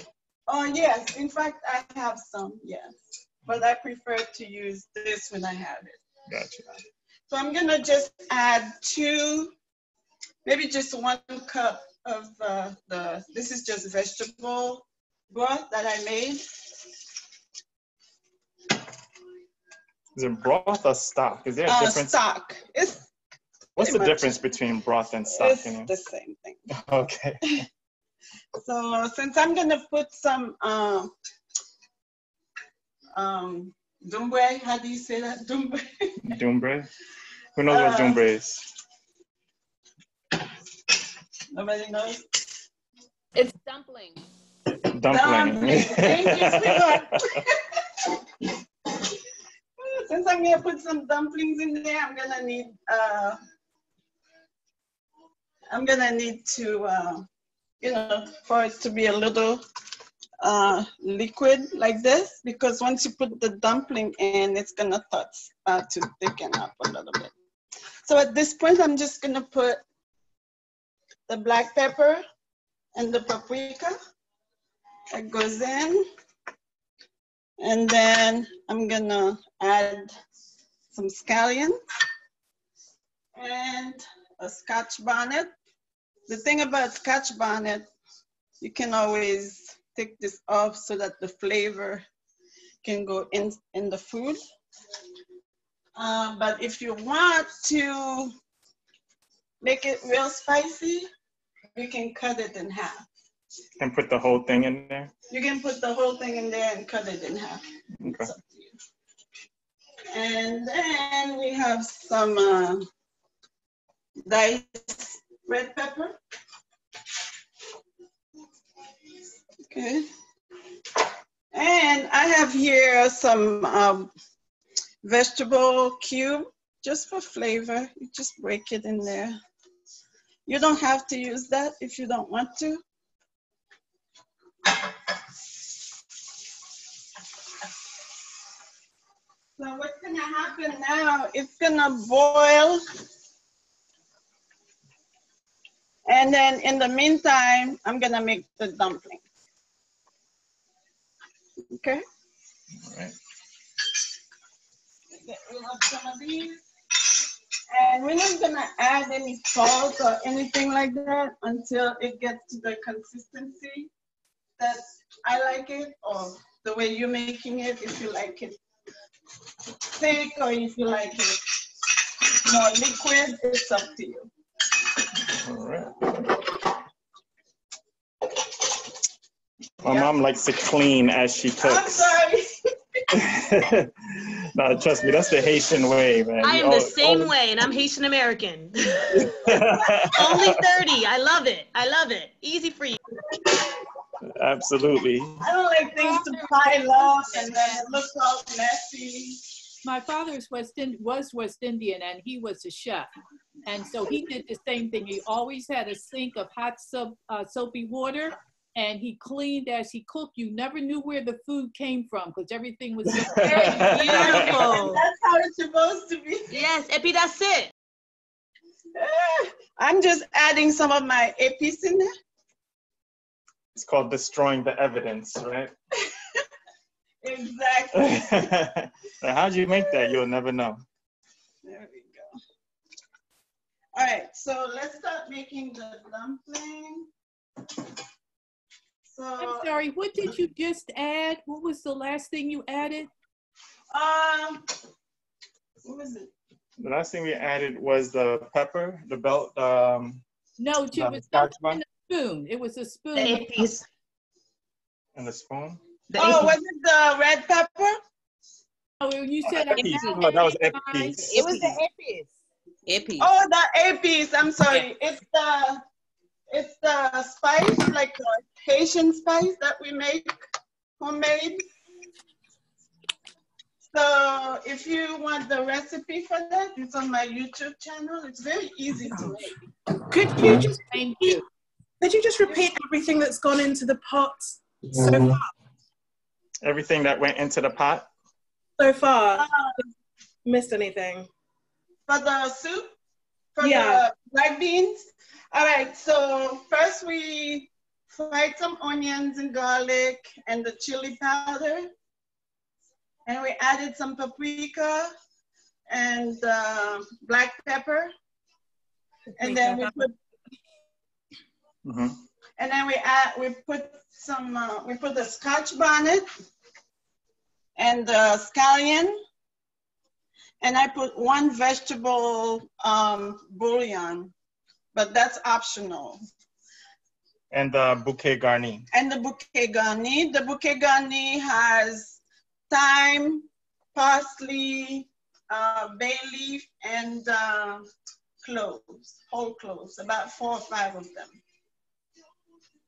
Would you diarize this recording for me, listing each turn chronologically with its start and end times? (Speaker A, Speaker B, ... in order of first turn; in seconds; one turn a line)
Speaker A: 0.5-2.9
Speaker A: 3.5-6.0
Speaker B: 6.3-6.6
Speaker A: 7.3-9.5
Speaker A: 10.4-16.4
Speaker B: 20.1-22.2
Speaker A: 21.7-23.0
Speaker A: 23.8-24.3
Speaker B: 23.8-25.9
Speaker A: 25.3-26.6
Speaker B: 26.7-27.6
Speaker A: 28.6-31.1
Speaker A: 33.1-36.2
Speaker B: 36.3-36.9
Speaker B: 37.5-38.6
Speaker A: 37.7-38.2
Speaker A: 41.5-42.2
Speaker B: 44.9-47.4
Speaker A: 45.1-47.6
Speaker A: 49.8-53.4
Speaker A: 55.7-57.3
Speaker A: 57.8-59.6
Speaker A: 60.4-67.3
Speaker A: 68.0-69.8
Speaker A: 71.3-72.2
Speaker A: 72.9-74.0
Speaker A: 75.1-76.0
Speaker A: 77.6-80.1
Speaker A: 80.9-81.8
Speaker A: 83.3-85.5
Speaker A: 86.3-87.9
Speaker A: 88.6-92.0
Speaker A: 92.8-94.4
Speaker A: 96.0-98.3
Speaker A: 99.6-101.1
Speaker A: 101.7-103.0
Speaker B: 103.8-105.1
Speaker A: 105.3-107.6
Speaker B: 108.0-108.3
Speaker A: 108.1-108.7
Speaker A: 110.1-112.8
Speaker A: 114.2-116.2
Speaker A: 119.7-120.0
Speaker A: 121.5-124.1
Speaker A: 125.0-129.3
Speaker A: 130.5-132.8
Speaker A: 139.6-142.8
Speaker A: 146.1-149.2
Speaker A: 151.7-152.0
Speaker B: 152.9-153.2
Speaker A: 155.1-156.6
Speaker A: 157.7-163.9
Speaker A: 164.6-168.6
Speaker A: 169.9-171.4
Speaker A: 172.3-174.3
Speaker B: 175.3-176.3
Speaker B: 179.8-182.1
Speaker A: 179.8-180.1
Speaker A: 181.6-182.4
Speaker B: 183.1-187.3
Speaker C: 186.4-189.3
Speaker B: 189.2-190.6
Speaker C: 190.1-193.0
Speaker B: 194.2-195.4
Speaker A: 195.4-199.4
Speaker D: 195.8-197.9
Speaker D: 199.8-203.1
Speaker D: 203.7-214.3
Speaker B: 213.1-214.6
Speaker C: 213.8-215.0
Speaker A: 213.9-216.6
Speaker C: 216.5-217.7
Speaker A: 218.9-222.1
Speaker B: 223.7-225.7
Speaker A: 227.2-228.5
Speaker B: 227.9-230.8
Speaker A: 231.6-232.3
Speaker A: 233.9-237.1
Speaker A: 239.1-239.7
Speaker D: 239.4-243.1
Speaker A: 243.9-244.6
Speaker A: 245.8-246.3
Speaker B: 246.8-250.2
Speaker D: 250.6-253.7
Speaker B: 250.9-251.8
Speaker C: 253.2-253.8
Speaker B: 255.2-255.8
Speaker A: 256.1-258.0
Speaker C: 256.2-256.4
Speaker D: 259.0-261.4
Speaker B: 259.6-261.7
Speaker C: 261.3-261.7
Speaker A: 263.2-265.8
Speaker A: 266.5-270.3
Speaker A: 271.0-271.6
Speaker A: 273.9-279.6
Speaker E: 280.1-281.4
Speaker D: 281.0-281.4
Speaker E: 282.0-285.4
Speaker B: 286.6-288.1
Speaker E: 288.9-289.4
Speaker A: 289.3-289.7
Speaker E: 290.6-291.0
Speaker A: 292.1-292.9
Speaker A: 293.6-295.0
Speaker C: 293.6-294.0
Speaker A: 295.5-301.9
Speaker A: 303.2-305.1
Speaker A: 305.9-308.1
Speaker A: 309.4-310.1
Speaker B: 311.8-312.2
Speaker A: 312.6-316.2
Speaker A: 317.8-319.2
Speaker A: 320.6-324.3
Speaker A: 324.9-326.2
Speaker B: 327.5-328.9
Speaker A: 328.9-332.2
Speaker A: 332.7-337.9
Speaker A: 338.4-341.4